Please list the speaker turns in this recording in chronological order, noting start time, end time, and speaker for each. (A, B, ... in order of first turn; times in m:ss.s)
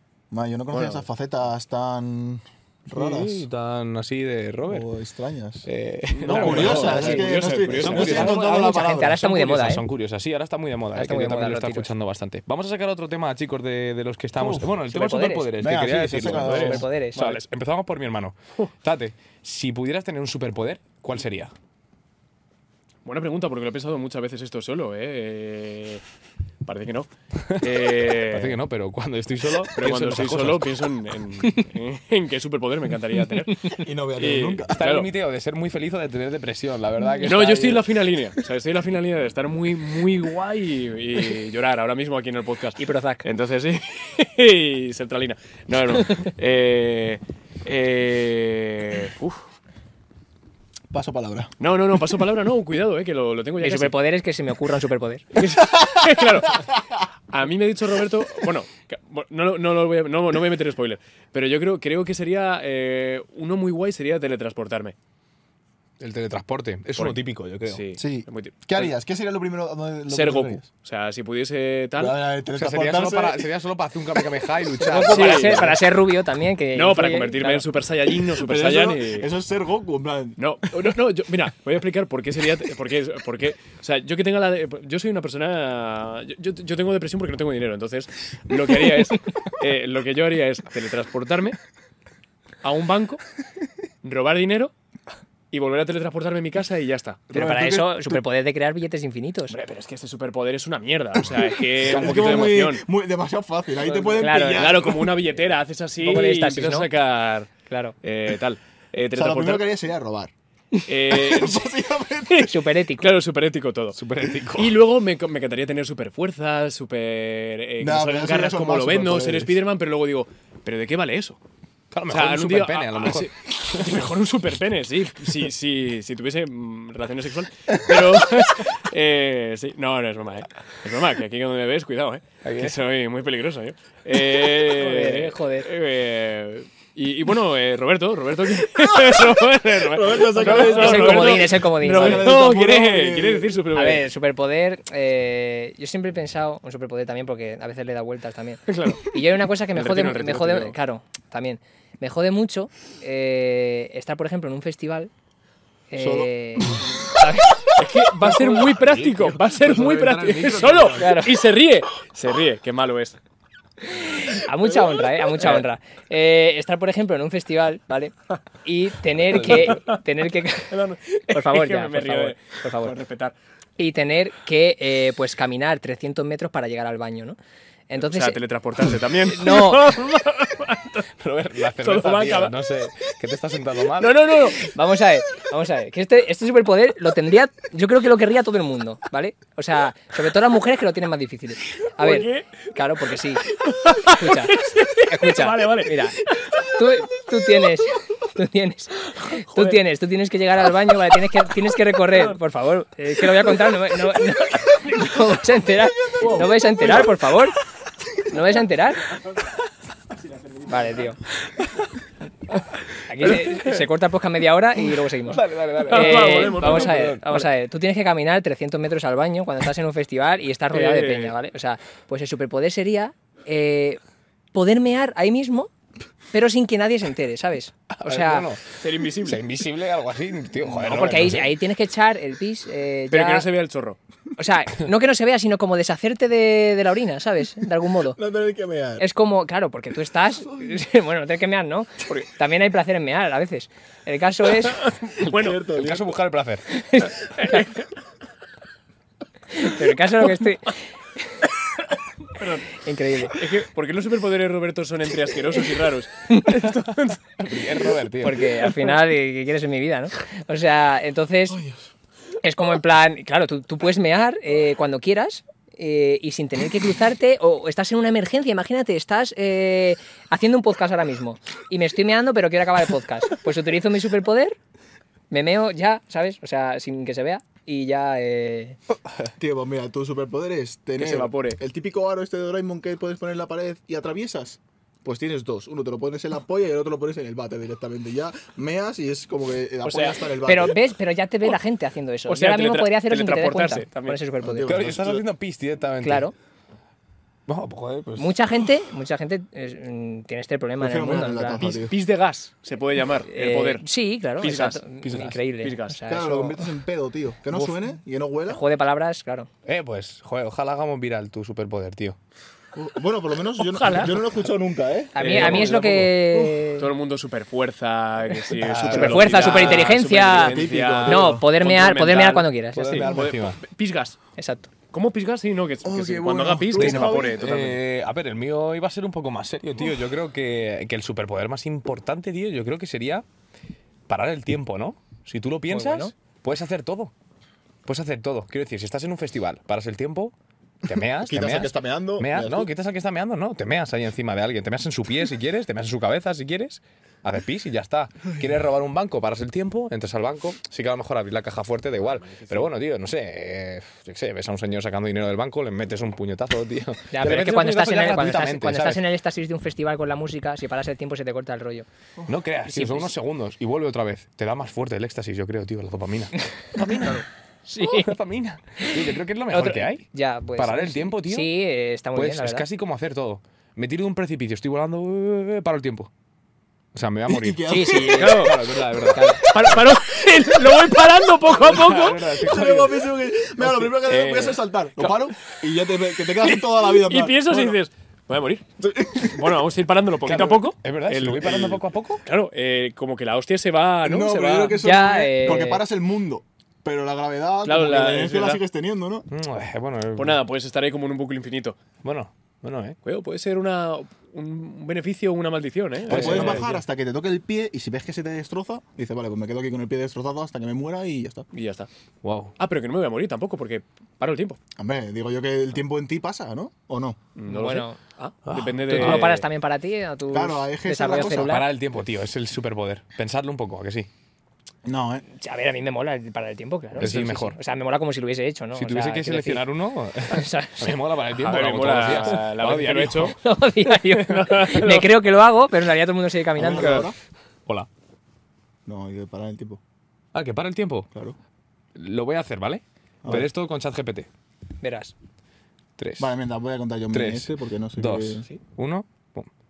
0:00.3-0:03.5 A
0:00.7-0:01.0 B
0:02.9-0:04.9 C
0:04.7-0:05.7 A
0:05.6-0:21.5 C
0:06.1-0:08.3 B
0:06.3-0:09.2 A
0:06.3-0:07.2 D
0:07.9-0:09.8 D
0:10.9-0:11.9 D
0:14.4-0:14.8 A
0:14.9-0:15.5 D
0:15.6-0:16.9 A
0:16.3-0:17.4 D
0:17.2-0:17.4 B
0:23.0-0:26.0 B
0:26.6-0:28.6 B
0:28.3-0:30.7 C
0:29.7-0:35.1 B
0:33.7-0:34.8 A
0:34.7-0:37.8 C
0:37.2-0:49.4 B
0:42.8-0:43.2 D
0:50.9-0:51.5 A
0:51.6-0:54.0 B
0:53.6-0:55.3 D
0:55.3-0:56.7 B
0:57.3-1:04.9 B
1:06.0-1:07.8 C
1:07.0-1:08.9 B
1:08.0-1:10.6 A
1:10.1-1:12.2 B
1:12.0-1:13.5 A
1:12.5-1:15.8 C
1:14.8-1:17.6 D
1:15.1-1:15.7 B
1:16.7-1:19.3 B
1:18.3-1:20.4 A
1:20.4-1:31.6 B
1:32.6-1:33.2 B
1:34.0-1:34.7 B
1:35.5-1:37.3 B
1:37.3-1:38.2 A
1:37.3-1:39.6 D
1:39.5-1:42.8 B
1:41.7-1:45.1 A
1:41.9-1:42.6 C
1:43.8-1:47.5 B
1:44.2-1:44.7 D
1:46.0-1:46.9 D
1:47.7-1:47.9 D
1:48.0-1:49.7 B
1:49.1-1:50.3 A
1:50.9-1:51.7 B
1:51.1-1:52.5 A
1:52.3-1:54.0 B
1:52.4-1:53.1 D
1:53.9-1:54.8 C
1:54.5-2:01.4 B
1:57.8-1:59.6 A
2:01.9-2:03.9 C
2:02.1-2:24.1 B
2:12.4-2:12.8 C
2:14.7-2:15.7 D
2:19.3-2:23.6 A
2:20.4-2:22.3 D
2:23.7-2:35.1 D
2:28.7-2:29.2 B
2:29.7-2:30.8 B
2:35.9-2:37.7 D
2:36.0-2:36.8 A
2:37.8-2:43.2 B
2:38.2-2:41.2 C
2:41.0-2:41.4 D
2:43.9-2:50.7 D
2:45.3-2:45.6 B
2:49.3-2:50.0 B
2:50.7-2:53.3 B
2:51.3-2:53.0 D
2:53.8-2:57.4 D
2:57.9-2:58.4 D
2:58.0-3:01.1 B
2:59.2-2:59.9 D
3:01.2-3:04.1 C
3:01.7-3:02.5 B
3:04.0-3:04.7 B
3:04.5-3:13.4 D
3:12.0-3:12.7 B
3:13.5-3:16.5 B
3:14.1-3:27.6 D
3:19.2-3:19.8 B
3:26.2-3:27.1 B
3:28.2-3:29.1 D
3:30.4-3:31.0 B
3:30.7-3:31.2 D
3:33.1-3:44.0 D
3:33.2-3:33.7 C
3:35.2-3:37.4 C
3:35.8-3:37.1 B
3:40.7-3:41.3 B
3:44.5-3:45.7 D
3:46.3-3:48.5 D
3:47.9-3:48.7 C
3:48.8-3:49.4 B
3:49.2-3:51.5 C
3:50.8-3:53.5 D
3:53.1-3:54.0 B
3:54.4-3:58.2 D
3:58.1-3:59.0 A
3:59.0-4:04.9 D
4:04.8-4:05.7 B
4:05.3-4:06.2 A
4:05.7-4:06.7 C
4:06.7-4:07.7 D
4:07.4-4:07.8 B
4:09.5-4:11.5 D
4:12.3-4:17.2 B
4:12.7-4:13.4 D
4:16.3-4:16.5 D
4:17.4-4:18.5 C
4:18.2-4:21.6 D
4:21.5-4:21.8 A
4:22.4-4:34.6 D
4:35.3-4:38.8 D
4:39.4-4:50.8 A
4:41.0-4:41.6 B
4:49.8-4:50.2 B
4:50.4-4:54.8 D
4:52.3-4:54.2 B
4:54.4-4:55.2 A
4:54.6-4:56.3 C
4:56.0-4:56.3 D
4:57.5-4:58.3 C
4:58.2-5:01.7 D
5:00.8-5:01.9 A
5:01.6-5:03.8 B
5:03.3-5:06.6 D
5:04.4-5:06.0 B
5:06.1-5:08.6 A
5:08.5-5:09.5 D
5:09.6-5:12.2 C
5:12.7-5:16.5 A
5:13.6-5:14.2 B
5:15.1-5:16.9 D
5:15.2-5:16.0 B
5:16.8-5:24.2 B
5:18.6-5:19.8 C
5:18.8-5:23.1 D
5:19.4-5:19.8 A
5:20.4-5:21.5 A
5:22.7-5:23.6 C
5:23.0-5:23.3 A
5:24.4-5:24.7 D
5:24.9-5:27.8 B
5:25.8-5:27.4 A
5:26.7-5:33.2 C
5:34.1-5:37.1 C
5:35.7-5:36.1 D
5:37.8-5:40.3 C
5:40.8-5:59.0 C
5:40.9-5:42.7 A
5:52.2-5:52.7 B
5:57.1-6:01.9 D
6:02.3-6:07.2 C
6:02.6-6:03.1 D
6:06.9-6:08.1 D
6:07.8-6:10.0 C
6:08.8-6:12.6 D
6:10.6-6:11.5 C
6:12.1-6:16.1 C
6:16.9-6:19.3 C
6:17.3-6:18.4 A
6:17.7-6:18.5 D
6:18.1-6:18.6 B
6:19.1-6:19.7 D
6:19.4-6:22.3 B
6:21.5-6:22.9 C
6:22.4-6:27.8 A
6:23.9-6:25.3 B
6:26.4-6:28.6 B
6:28.8-6:29.6 A
6:29.2-6:34.8 B
6:30.2-6:32.2 C
6:34.0-6:39.2 A
6:34.8-6:35.8 D
6:37.6-6:38.6 B
6:39.3-6:40.4 C
6:40.2-6:41.8 B
6:42.0-6:43.0 C
6:43.0-6:46.8 B
6:46.1-6:46.7 C
6:46.1-6:51.5 A
6:51.5-6:51.9 B
6:52.2-6:52.5 C
6:52.6-6:54.6 B
6:54.8-6:57.2 A
6:57.4-6:59.4 B
6:57.5-6:58.0 D
6:58.5-6:59.4 C
6:58.9-7:01.7 D
7:00.3-7:01.6 A
7:01.2-7:04.1 C
7:04.8-7:05.2 A
7:05.3-7:09.6 D
7:07.0-7:07.6 C
7:08.7-7:13.4 C
7:10.3-7:11.0 D
7:11.3-7:13.4 B
7:13.4-7:17.1 D
7:14.0-7:15.1 B
7:16.6-7:17.2 A
7:18.8-7:19.8 A
7:20.3-7:21.1 C
7:21.9-7:24.3 C
7:23.2-7:23.5 A
7:24.8-7:25.1 D
7:26.0-7:26.3 C
7:26.2-7:28.5 A
7:27.1-7:29.5 C